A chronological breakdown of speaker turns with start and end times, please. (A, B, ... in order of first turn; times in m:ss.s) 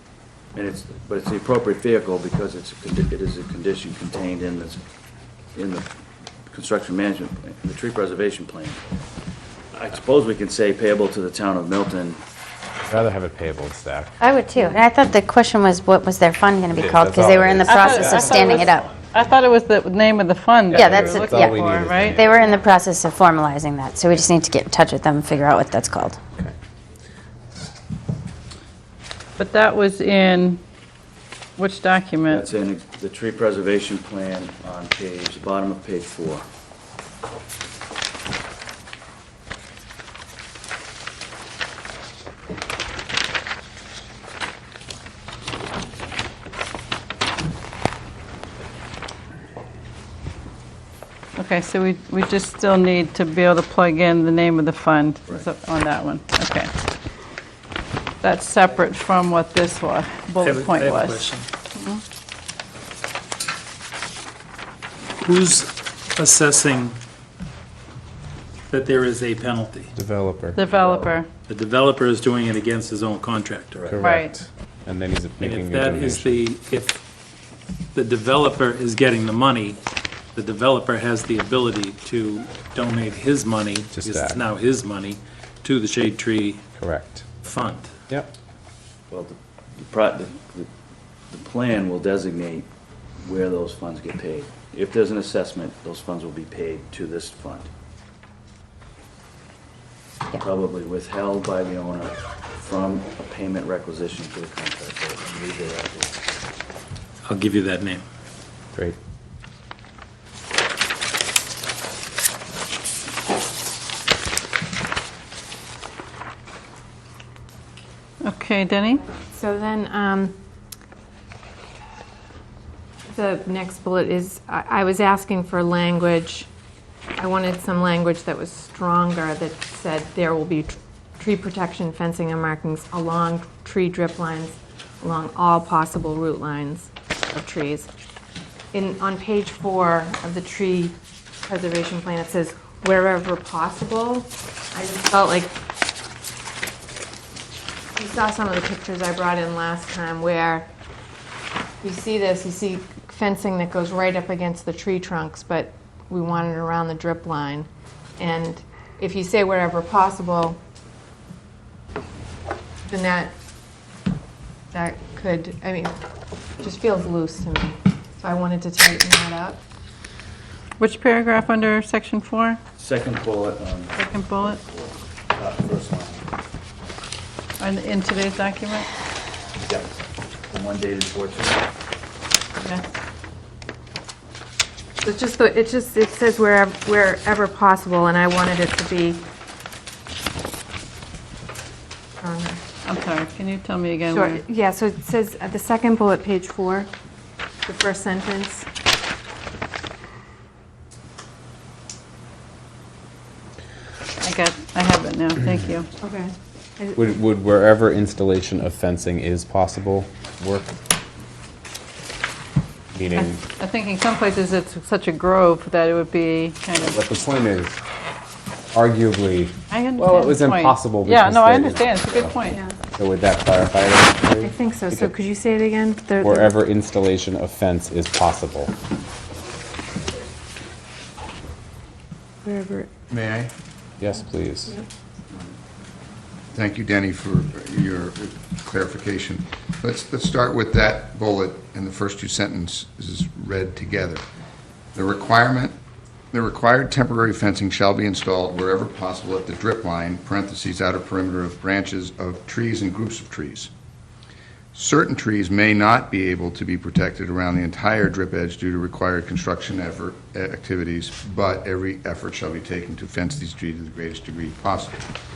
0:00.5-0:04.8 A
0:05.5-0:05.8 A
0:06.5-0:08.8 A
0:09.7-0:12.2 A
0:12.9-0:14.2 B
0:14.2-0:18.8 C
0:16.7-0:19.1 B
0:17.6-0:22.3 D
0:20.7-0:22.4 B
0:20.7-0:26.2 C
0:29.4-0:30.6 D
0:31.6-0:32.4 D
0:32.3-0:36.4 A
0:51.4-0:56.7 D
0:58.2-1:02.0 D
1:00.4-1:01.5 E
1:05.2-1:07.0 E
1:08.7-1:09.9 E
1:10.0-1:10.6 B
1:10.5-1:11.3 D
1:10.6-1:11.2 A
1:11.5-1:13.9 E
1:13.7-1:14.0 A
1:13.9-1:16.4 B
1:14.0-1:14.3 D
1:15.4-1:17.0 E
1:17.9-1:19.8 E
1:20.3-1:26.6 E
1:23.9-1:24.4 B
1:26.8-1:27.2 B
1:27.4-1:27.9 E
1:29.1-1:30.7 A
1:31.3-1:32.6 A
1:33.2-1:37.7 A
1:40.3-1:46.1 A
1:47.2-1:48.0 E
1:58.2-1:59.0 D
1:59.3-2:00.3 F
2:03.1-2:06.5 F
2:07.2-2:17.9 F
2:18.7-2:25.5 F
2:28.0-2:30.7 F
2:31.8-2:37.7 F
2:38.2-2:40.6 F
2:42.9-2:43.3 F
2:44.7-2:45.9 F
2:46.6-2:49.6 F
2:50.8-2:52.6 D
2:52.8-2:56.2 A
2:54.0-2:54.6 D
2:57.6-2:58.9 D
3:00.5-3:01.6 A
3:02.6-3:02.9 D
3:05.0-3:09.3 F
3:12.2-3:12.6 F
3:12.8-3:14.4 D
3:14.1-3:16.9 F
3:17.6-3:18.7 F
3:24.2-3:25.9 D
3:26.0-3:27.0 F
3:27.0-3:30.7 B
3:32.9-3:33.4 B
3:33.1-3:37.0 D
3:36.8-3:37.8 B
3:38.7-3:42.3 B
3:39.7-3:42.6 D
3:42.5-3:42.7 F
3:42.9-3:45.1 B
3:44.4-3:46.6 F
3:46.2-3:48.7 B
3:52.4-3:52.9 F
3:53.1-3:53.5 G
3:54.0-3:54.7 B
3:56.5-4:04.2 G
4:04.9-4:05.8 G
4:06.3-4:13.7 G
4:14.7-4:25.0 G